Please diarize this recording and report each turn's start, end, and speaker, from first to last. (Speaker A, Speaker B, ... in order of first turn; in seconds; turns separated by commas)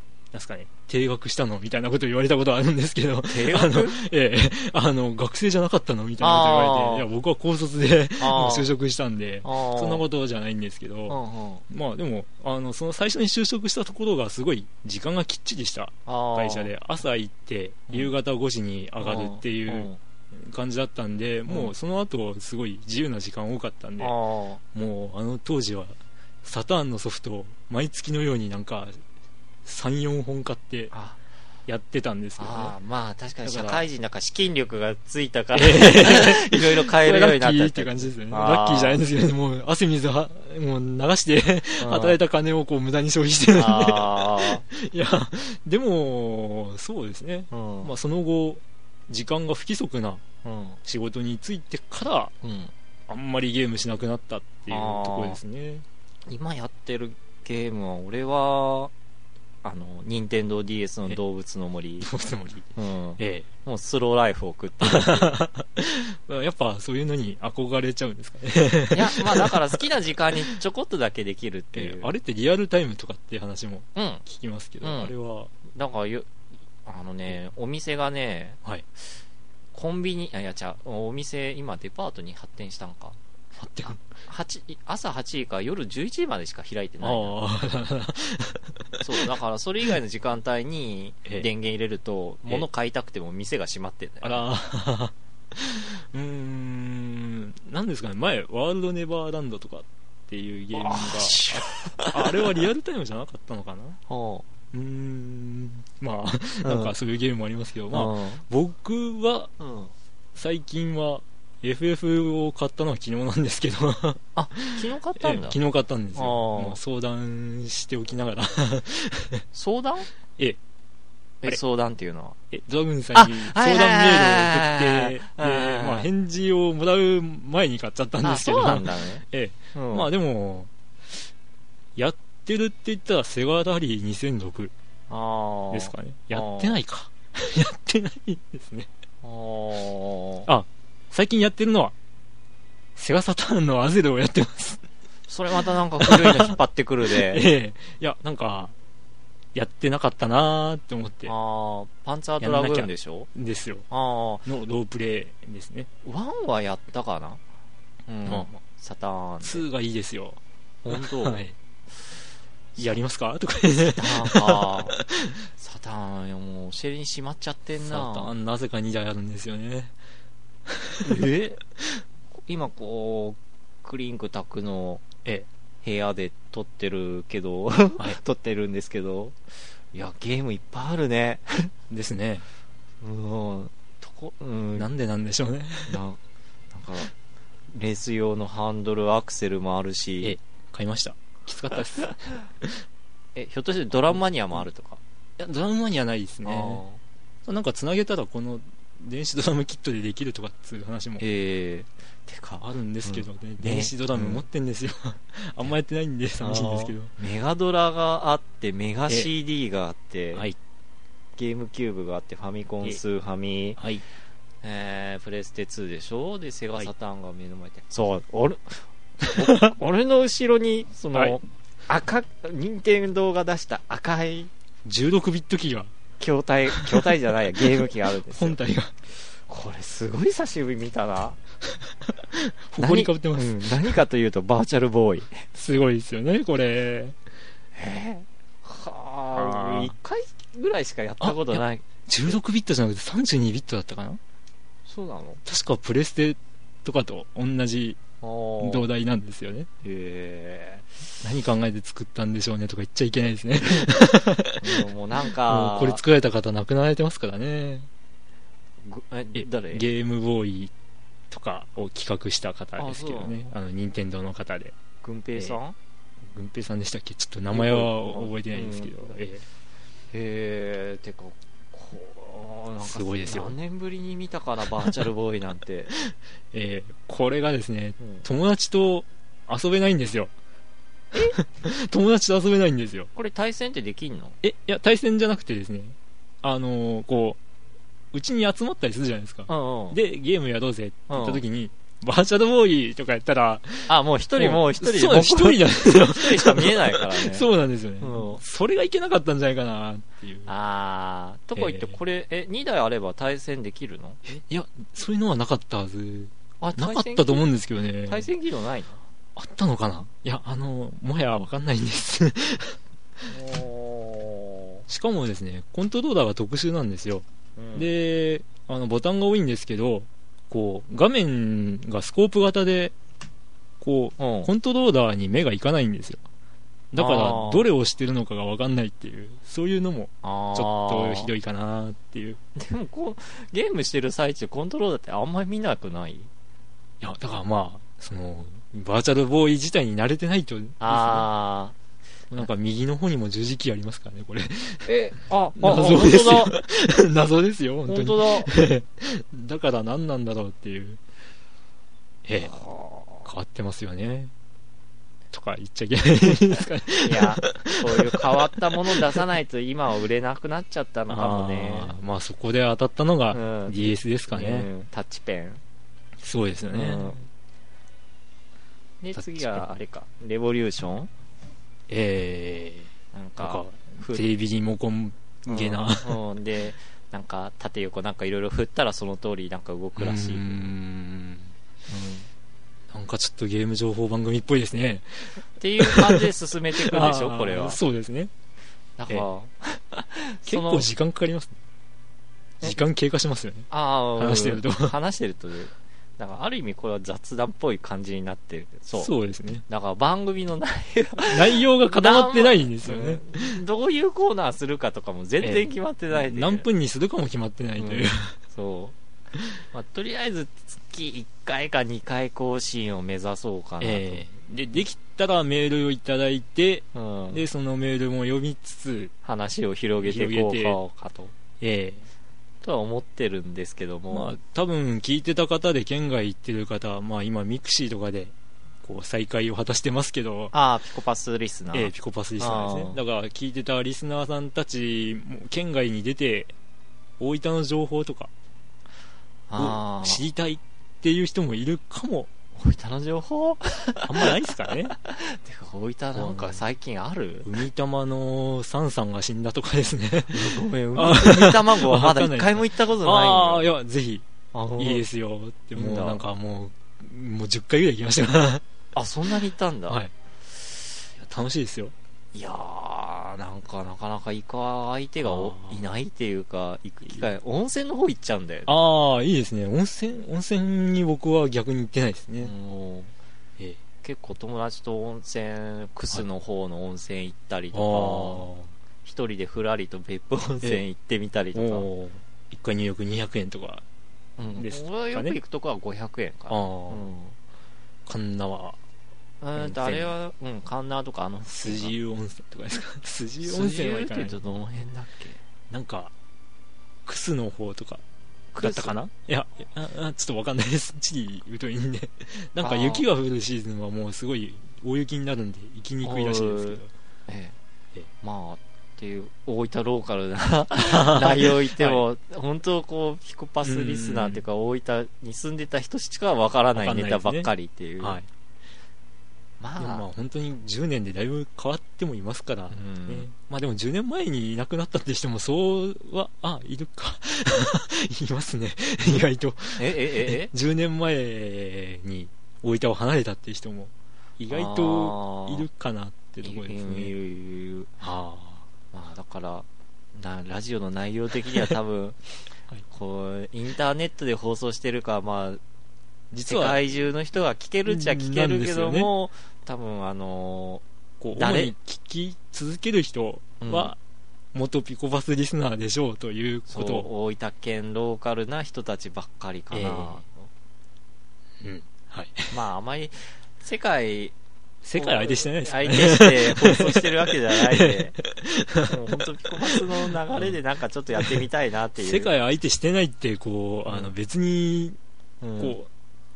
Speaker A: 0.3-11.2, Speaker B: 3.3-4.0, Speaker B: 6.2-7.1, Speaker B: 8.2-8.7, Speaker B: 9.4-10.0, Speaker B: 11.1-11.6, Speaker A: 11.7-24.1, Speaker B: 16.1-16.7, Speaker B: 19.0-20.0, Speaker B: 21.5-21.7, Speaker B: 24.0-24.6, Speaker A: 24.7-29.0, Speaker A: 29.6-30.9, Speaker B: 30.9-31.2, Speaker A: 31.7-32.8, Speaker B: 32.4-39.0, Speaker A: 33.5-33.8, Speaker A: 35.6-50.2, Speaker B: 41.8-42.2, Speaker B: 43.5-44.6, Speaker B: 47.5-47.9, Speaker B: 50.4-50.8, Speaker A: 50.9-52.3, Speaker B: 52.4-52.7, Speaker A: 53.1-55.8, Speaker B: 54.7-55.4, Speaker B: 56.3-58.9, Speaker B: 59.6-62.1, Speaker A: 62.0-62.7, Speaker B: 62.8-65.3, Speaker A: 63.2-63.5, Speaker A: 64.8-69.5, Speaker B: 68.9-72.1, Speaker A: 71.7-75.5, Speaker B: 74.0-74.2, Speaker B: 74.8-75.1, Speaker B: 75.7-76.3, Speaker B: 76.9-78.6, Speaker B: 79.7-83.2, Speaker A: 83.6-84.0, Speaker B: 83.9-87.4, Speaker A: 87.0-88.7, Speaker B: 89.0-94.5, Speaker A: 94.2-104.0, Speaker B: 100.8-102.6, Speaker B: 104.1-104.5, Speaker A: 104.7-109.5, Speaker B: 106.6-106.9, Speaker B: 107.9-108.4, Speaker B: 109.6-109.9, Speaker A: 110.3-119.4, Speaker B: 114.4-115.6, Speaker B: 116.2-116.8, Speaker B: 119.5-120.1, Speaker B: 121.4-122.4, Speaker A: 122.5-130.7, Speaker B: 123.2-126.1, Speaker B: 128.2-129.2, Speaker B: 129.8-130.1, Speaker A: 132.0-134.7, Speaker B: 135.1-136.8, Speaker A: 135.7-138.9, Speaker B: 139.2-140.5, Speaker A: 140.5-141.9, Speaker A: 143.0-144.8, Speaker B: 145.3-147.5, Speaker A: 146.0-146.6, Speaker A: 147.2-148.7, Speaker A: 149.6-151.3, Speaker B: 151.3-153.3, Speaker A: 152.4-153.8, Speaker B: 153.9-154.4, Speaker A: 154.4-155.9, Speaker B: 156.1-157.4, Speaker B: 158.1-159.7, Speaker A: 159.4-160.4, Speaker B: 160.8-161.4, Speaker A: 160.9-161.6, Speaker A: 162.8-165.4, Speaker B: 163.7-165.0, Speaker B: 165.6-168.3, Speaker A: 167.8-169.9, Speaker A: 170.7-171.2, Speaker B: 171.0-171.6, Speaker B: 172.5-175.0, Speaker B: 175.8-179.4, Speaker B: 179.9-181.7, Speaker A: 181.9-182.4, Speaker B: 183.0-184.9, Speaker A: 184.8-186.0, Speaker B: 185.9-186.2, Speaker B: 186.7-187.1, Speaker B: 187.7-190.4, Speaker A: 190.2-192.8, Speaker B: 193.3-195.0, Speaker A: 195.4-196.8, Speaker B: 196.4-197.0, Speaker A: 197.5-201.2, Speaker B: 201.2-204.4, Speaker A: 202.6-207.1, Speaker B: 206.4-210.5, Speaker B: 211.4-213.8, Speaker A: 213.8-214.0, Speaker B: 214.6-224.5, Speaker A: 224.8-225.9, Speaker B: 226.2-228.6, Speaker A: 226.7-227.1, Speaker A: 228.3-228.9, Speaker B: 229.5-231.4, Speaker A: 232.3-234.0, Speaker B: 232.8-235.5, Speaker A: 235.5-237.2, Speaker B: 237.8-242.4, Speaker A: 239.3-239.9, Speaker A: 241.2-244.2, Speaker B: 244.9-245.4, Speaker A: 245.4-248.0, Speaker B: 248.2-248.9, Speaker A: 248.6-249.7, Speaker B: 249.8-250.9, Speaker A: 251.2-254.8, Speaker B: 254.6-256.0, Speaker A: 255.5-257.9, Speaker B: 258.8-259.9, Speaker A: 259.4-260.7, Speaker A: 261.3-264.7, Speaker B: 262.8-263.5, Speaker B: 265.0-265.8, Speaker A: 266.3-269.4, Speaker B: 267.5-269.2, Speaker B: 270.1-275.9, Speaker A: 272.8-273.6, Speaker A: 276.1-280.3, Speaker B: 278.0-278.2, Speaker A: 281.4-283.1, Speaker B: 283.1-284.4, Speaker A: 284.4-287.4, Speaker A: 288.1-300.5, Speaker B: 289.5-290.0, Speaker B: 291.1-291.4, Speaker B: 293.9-297.5, Speaker B: 298.0-298.4, Speaker B: 300.5-304.2, Speaker A: 301.6-301.9, Speaker A: 304.3-308.3, Speaker B: 306.6-307.4, Speaker B: 308.1-309.0, Speaker A: 309.4-312.8, Speaker B: 313.3-314.9, Speaker A: 314.9-317.2, Speaker B: 317.6-317.9, Speaker A: 317.8-322.9, Speaker A: 323.8-326.2, Speaker B: 324.2-324.5, Speaker A: 326.9-332.4, Speaker B: 327.0-327.7, Speaker B: 330.2-331.3, Speaker B: 332.6-336.3, Speaker A: 337.0-341.3, Speaker B: 340.8-341.7, Speaker A: 342.3-344.9, Speaker B: 344.9-346.6, Speaker A: 345.6-351.0, Speaker B: 347.9-348.5, Speaker A: 352.3-352.5, Speaker B: 352.4-353.3, Speaker A: 353.3-354.3, Speaker A: 355.3-358.3, Speaker B: 357.0-362.0, Speaker A: 361.1-364.7, Speaker B: 363.3-365.6, Speaker A: 366.2-367.1, Speaker B: 366.7-367.2, Speaker B: 369.0-371.1, Speaker A: 369.2-369.6, Speaker A: 371.9-372.9, Speaker B: 373.1-374.2, Speaker A: 373.4-376.2, Speaker B: 375.5-380.7, Speaker A: 380.0-381.5, Speaker B: 381.9-382.3, Speaker A: 382.9-386.3, Speaker B: 385.6-387.8, Speaker A: 386.8-388.3, Speaker B: 389.0-390.9, Speaker A: 390.5-391.5, Speaker A: 392.6-393.7, Speaker B: 393.7-399.1, Speaker A: 394.2-394.9, Speaker A: 399.0-399.6, Speaker B: 399.7-406.7, Speaker A: 401.3-403.6, Speaker A: 405.4-408.3, Speaker B: 407.8-408.9, Speaker B: 409.7-414.3, Speaker A: 413.8-419.1, Speaker B: 416.9-417.4, Speaker B: 419.2-421.3, Speaker A: 420.0-420.8, Speaker A: 421.6-422.0, Speaker B: 422.6-424.4, Speaker A: 424.1-430.5, Speaker B: 430.5-433.0, Speaker A: 431.7-436.5, Speaker A: 437.2-438.3, Speaker B: 439.5-440.3, Speaker A: 439.6-442.3, Speaker B: 442.6-444.4, Speaker A: 444.1-444.9, Speaker B: 445.0-447.5, Speaker A: 446.1-446.6, Speaker A: 447.4-454.2, Speaker B: 450.3-453.7, Speaker B: 454.5-455.0, Speaker A: 454.8-458.6, Speaker B: 455.8-456.2, Speaker B: 458.9-460.0, Speaker A: 461.2-461.9, Speaker B: 462.3-468.7, Speaker A: 465.3-465.8, Speaker A: 468.7-472.5, Speaker B: 472.4-473.1, Speaker B: 474.0-478.5, Speaker A: 477.7-478.6, Speaker B: 479.0-481.9, Speaker A: 481.6-483.8, Speaker B: 484.4-487.4, Speaker A: 484.5-485.4, Speaker A: 486.5-487.1, Speaker A: 488.1-488.8, Speaker B: 489.4-491.9, Speaker A: 489.6-490.1, Speaker A: 491.5-494.4, Speaker B: 493.4-495.4, Speaker A: 495.7-496.1, Speaker A: 497.1-498.0, Speaker B: 498.5-499.0, Speaker A: 498.6-506.9, Speaker B: 502.6-503.1, Speaker B: 506.0-507.6, Speaker B: 508.2-518.2, Speaker A: 510.9-512.0, Speaker A: 513.6-514.4, Speaker A: 516.8-517.5, Speaker A: 518.0-518.3, Speaker B: 519.6-520.0, Speaker A: 519.8-537.1, Speaker B: 522.7-523.3, Speaker B: 529.8-530.5, Speaker B: 534.5-535.7, Speaker B: 536.4-537.9, Speaker A: 538.0-538.6, Speaker B: 538.9-542.2, Speaker B: 542.9-545.6, Speaker A: 546.3-546.8, Speaker B: 546.5-550.8, Speaker A: 547.9-549.1, Speaker A: 551.2-554.0, Speaker B: 551.4-551.7, Speaker B: 553.6-553.9, Speaker A: 554.5-557.1, Speaker B: 556.7-560.5, Speaker A: 559.7-560.1, Speaker A: 561.6-562.5, Speaker B: 562.5-564.3, Speaker A: 564.9-567.0, Speaker B: 565.0-568.2, Speaker A: 567.6-568.9, Speaker B: 568.9-572.3, Speaker A: 572.0-575.0, Speaker B: 573.9-574.1, Speaker B: 575.4-575.8, Speaker A: 575.6-575.9